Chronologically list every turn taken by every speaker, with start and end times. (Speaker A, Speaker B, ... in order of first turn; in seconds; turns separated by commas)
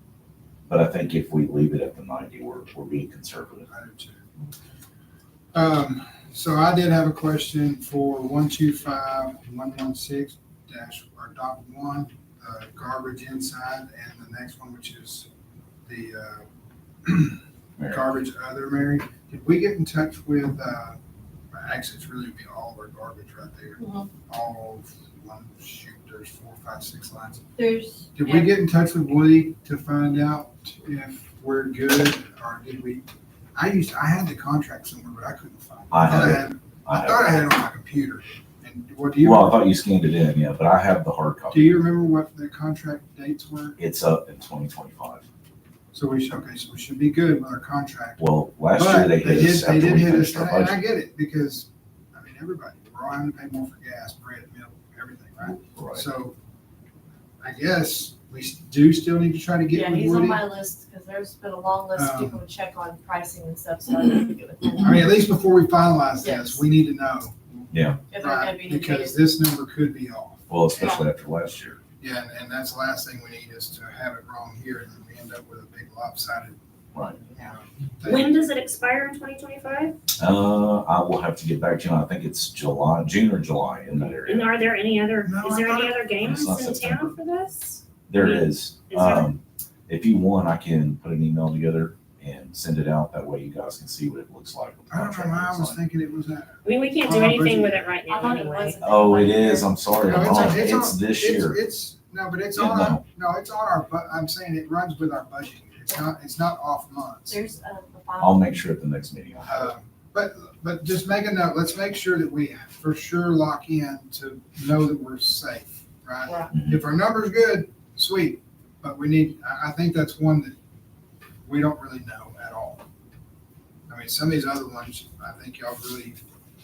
Speaker A: 0.7-3.7, Speaker B: 3.7-4.2, Speaker B: 5.5-15.3, Speaker B: 15.9-16.5, Speaker B: 17.0-21.0, Speaker A: 17.8-18.1, Speaker B: 21.5-27.4, Speaker C: 23.8-24.1, Speaker C: 27.6-28.1, Speaker B: 28.1-33.0, Speaker B: 33.5-39.7, Speaker A: 35.9-37.4, Speaker A: 39.2-41.8, Speaker B: 41.5-43.8, Speaker A: 43.8-45.2, Speaker B: 45.9-56.3, Speaker A: 48.2-50.8, Speaker A: 55.7-56.1, Speaker B: 57.4-60.4, Speaker C: 59.7-64.8, Speaker B: 61.9-62.4, Speaker B: 64.8-67.4, Speaker C: 66.2-66.6, Speaker A: 67.7-68.0, Speaker C: 68.1-69.2, Speaker B: 68.1-70.4, Speaker A: 70.5-71.8, Speaker B: 72.0-76.6, Speaker B: 77.3-78.4, Speaker D: 78.0-80.0, Speaker A: 80.2-84.6, Speaker D: 84.2-89.3, Speaker B: 85.2-86.0, Speaker A: 86.2-87.1, Speaker A: 88.1-95.8, Speaker B: 94.9-97.9, Speaker D: 96.6-98.8, Speaker C: 98.1-99.8, Speaker A: 98.8-101.6, Speaker B: 100.0-107.4, Speaker A: 102.5-103.0, Speaker C: 107.3-108.5, Speaker A: 108.2-109.7, Speaker B: 109.5-120.5, Speaker A: 116.5-116.8, Speaker B: 121.4-122.8, Speaker B: 123.9-126.2